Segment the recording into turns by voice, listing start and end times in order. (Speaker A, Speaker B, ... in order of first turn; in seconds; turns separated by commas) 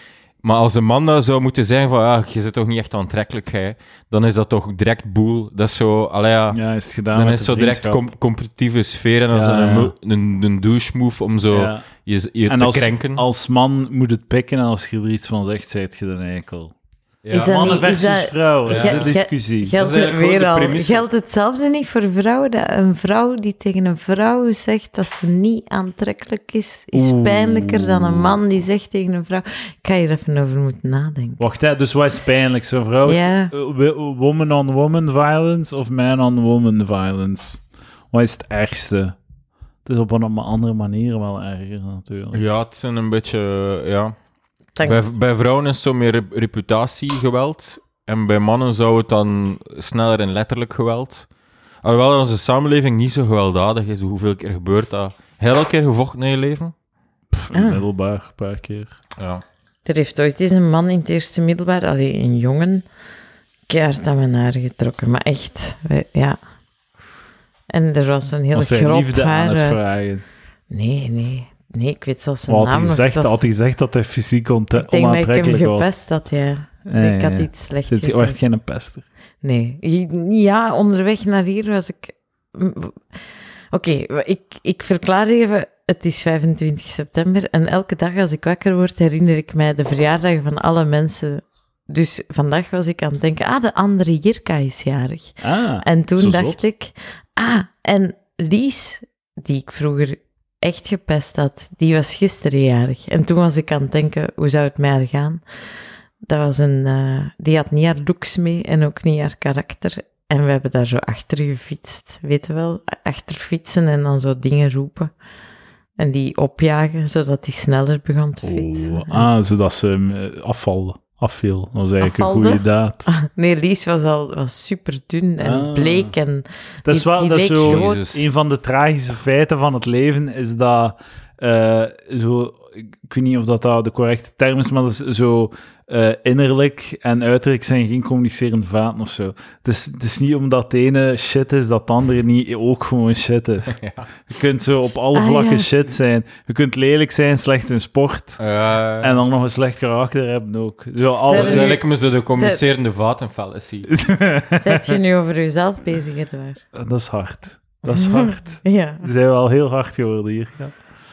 Speaker A: 0.4-6.6, Speaker B: 6.5-8.1, Speaker A: 7.1-13.2, Speaker B: 9.3-9.9, Speaker B: 11.5-11.8, Speaker B: 12.5-16.7, Speaker A: 17.2-17.9, Speaker C: 17.3-31.4, Speaker B: 17.3-19.7, Speaker A: 18.7-19.1, Speaker A: 19.8-21.1, Speaker B: 26.9-28.4, Speaker B: 31.4-37.6, Speaker C: 33.0-33.5, Speaker B: 38.1-39.2, Speaker B: 39.8-42.4, Speaker A: 42.3-44.1, Speaker C: 44.8-45.0, Speaker A: 44.8-51.3, Speaker A: 51.8-56.7, Speaker B: 57.3-59.0, Speaker C: 57.5-57.8, Speaker A: 59.2-59.4, Speaker C: 59.9-62.8, Speaker C: 63.7-66.4, Speaker C: 67.7-70.0, Speaker B: 68.5-70.2, Speaker C: 70.7-73.4, Speaker B: 72.5-75.9, Speaker C: 74.8-78.4, Speaker B: 76.8-79.0, Speaker C: 79.4-105.4, Speaker B: 95.4-96.6, Speaker C: 106.2-115.1, Speaker C: 116.0-119.3, Speaker B: 118.4-123.0, Speaker C: 122.0-128.0, Speaker B: 125.4-126.1, Speaker B: 126.8-148.4, Speaker A: 127.6-128.3, Speaker A: 143.7-144.1, Speaker C: 145.1-145.7, Speaker A: 148.4-149.2, Speaker B: 149.0-151.8, Speaker C: 151.3-152.6, Speaker A: 151.3-153.9, Speaker B: 153.9-154.9, Speaker C: 154.6-156.6, Speaker B: 156.7-160.8, Speaker C: 157.9-159.1